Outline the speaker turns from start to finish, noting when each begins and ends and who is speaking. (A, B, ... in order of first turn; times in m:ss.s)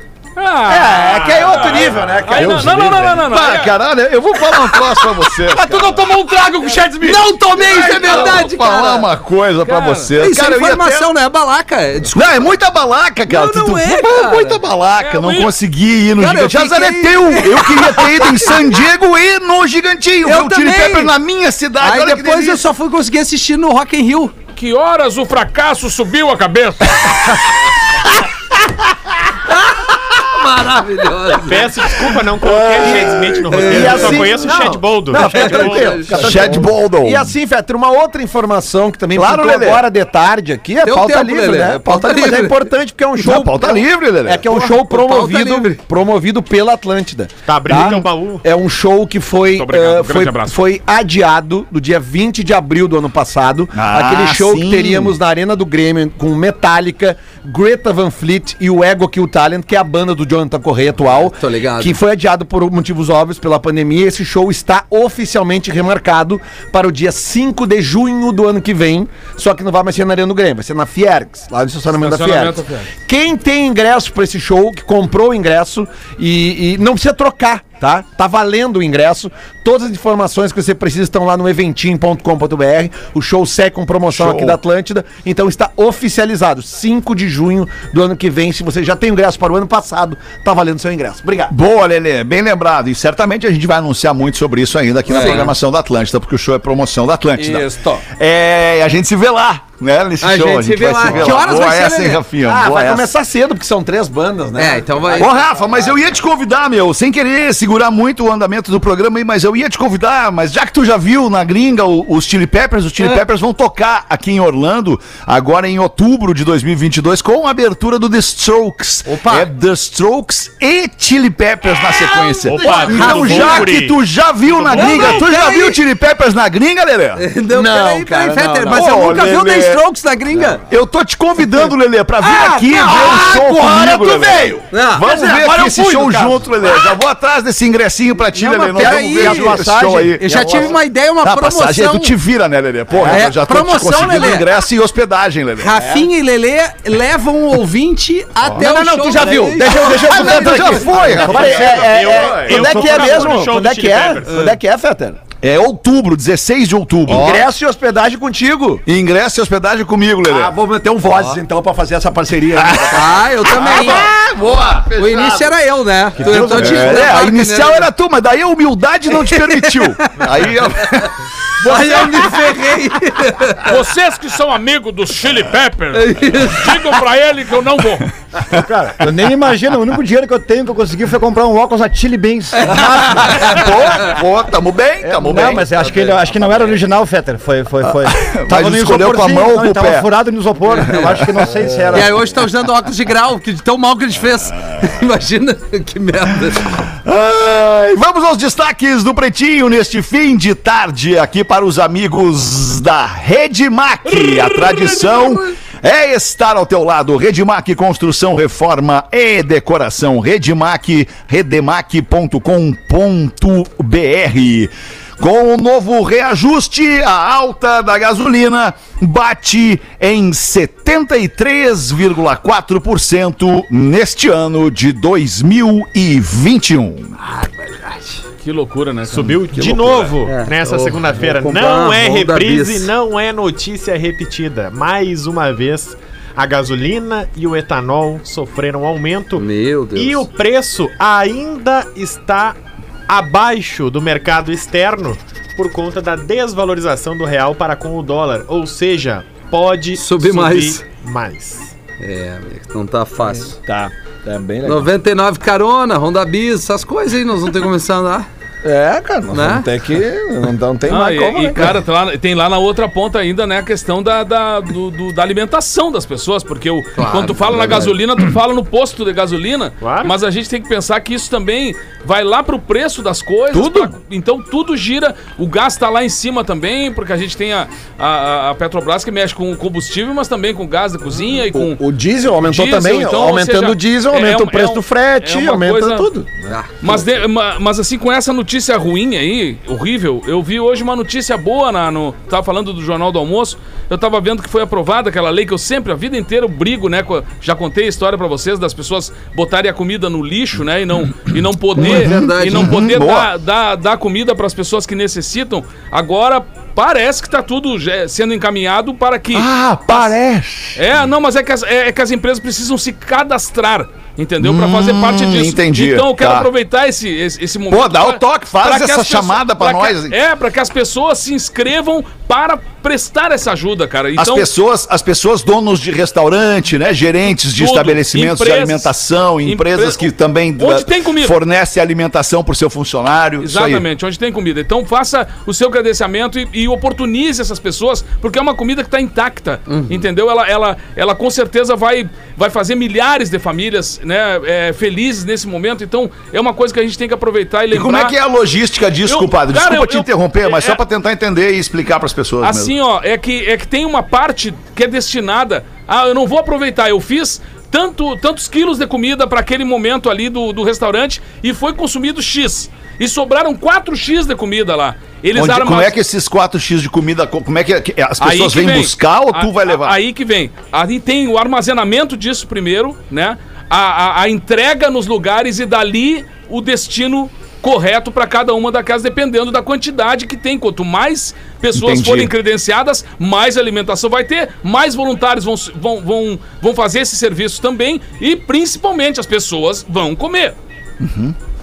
0:00.4-0:03.8 A
0:00.7-0:03.1 B
0:01.4-0:02.2 C
0:02.4-0:03.2 D
0:03.3-0:06.2 E
0:05.8-0:06.9 A
0:06.1-0:07.2 C
0:07.0-0:09.1 F
0:07.6-0:11.1 E
0:07.7-0:08.4 A
0:09.6-0:10.1 A
0:10.2-0:12.4 F
0:12.1-0:22.7 E
0:13.3-0:14.6 F
0:15.0-0:15.5 A
0:16.2-0:18.7 F
0:20.2-0:21.1 F
0:21.8-0:24.3 F
0:24.6-0:27.4 A
0:29.5-0:31.7 F
0:31.4-0:36.2 C
0:32.5-0:33.9 E
0:32.8-1:31.5 B
0:33.5-0:34.2 F
0:35.2-0:36.1 F
0:36.1-0:37.3 E
0:39.1-0:39.9 E
0:40.8-0:42.7 F
0:43.2-0:44.5 E
0:44.5-0:45.8 F
0:47.5-0:48.4 C
0:49.5-0:50.6 A
0:53.7-0:55.2 E
1:01.1-1:02.0 F
1:11.9-1:12.9 A
1:24.1-1:24.6 E
1:31.5-1:43.1 E
1:35.1-1:35.6 F
1:35.2-1:35.4 B
1:37.4-1:38.0 B
1:40.2-1:42.2 F
1:41.1-1:41.4 B
1:42.4-1:45.9 B
1:44.6-1:45.3 F
1:45.2-2:07.2 E
1:59.1-1:59.5 F
2:02.4-2:03.7 F
2:02.5-2:04.0 C
2:02.6-2:03.0 B
2:04.6-2:05.8 B
2:04.7-2:05.3 F
2:07.2-2:10.6 F
2:07.5-2:09.2 B
2:08.7-2:09.8 E
2:10.3-2:10.6 B
2:10.7-2:25.8 E
2:12.2-2:16.8 B
2:14.7-2:15.1 F
2:18.3-2:22.2 F
2:18.7-2:20.8 B
2:23.0-2:23.3 B
2:23.0-2:24.5 F
2:25.6-2:31.6 F
2:25.8-2:26.1 B
2:28.4-2:35.2 B
2:29.7-2:32.0 E
2:31.3-2:31.8 D
2:31.3-2:34.6 C
2:35.4-2:37.5 E
2:37.1-2:38.8 B
2:38.9-2:40.6 E
2:40.3-2:43.2 B
2:42.5-2:45.6 E
2:42.9-2:44.1 F
2:45.0-2:47.9 F
2:46.2-2:52.3 E
2:46.2-2:47.1 B
2:49.1-2:50.1 F
2:51.6-2:53.8 F
2:53.7-2:58.1 A
2:55.9-2:57.0 F
2:58.5-3:03.7 D
3:02.6-3:03.6 F
3:03.1-3:05.8 E
3:05.0-3:12.1 D
3:07.8-3:10.1 E
3:10.9-3:11.4 E
3:11.9-3:16.8 F
3:17.0-3:47.2 E
3:24.2-3:25.4 A
3:47.2-3:48.2 F
3:48.4-3:49.4 A
3:49.1-4:02.6 C
3:49.5-3:50.2 E
3:50.2-3:52.9 F
3:59.4-4:00.3 F
4:03.1-4:11.7 C
4:10.0-4:10.8 F
4:12.0-4:13.6 F
4:13.6-4:14.9 B
4:14.6-4:18.3 F
4:18.6-4:21.8 B
4:19.3-4:19.7 F
4:20.9-4:41.8 A
4:27.0-4:28.0 F
4:29.8-4:30.1 C
4:33.6-4:33.9 E
4:41.5-4:46.6 B
4:42.4-4:46.1 A
4:46.5-4:47.0 F
4:46.8-5:10.1 A
5:01.8-5:02.8 F
5:01.8-5:03.3 E
5:09.3-5:10.8 E
5:10.8-5:24.5 A
5:14.4-5:16.5 E
5:17.7-5:20.2 E
5:24.2-5:33.8 E
5:27.6-5:28.9 A
5:29.4-5:31.4 A
5:33.4-5:48.2 A
5:39.7-5:40.1 F
5:47.7-5:52.7 E
5:49.1-5:50.8 A
5:52.4-6:06.0 A
6:05.3-6:10.0 E
6:08.2-6:30.6 A
6:21.7-6:22.3 E
6:31.0-6:31.4 E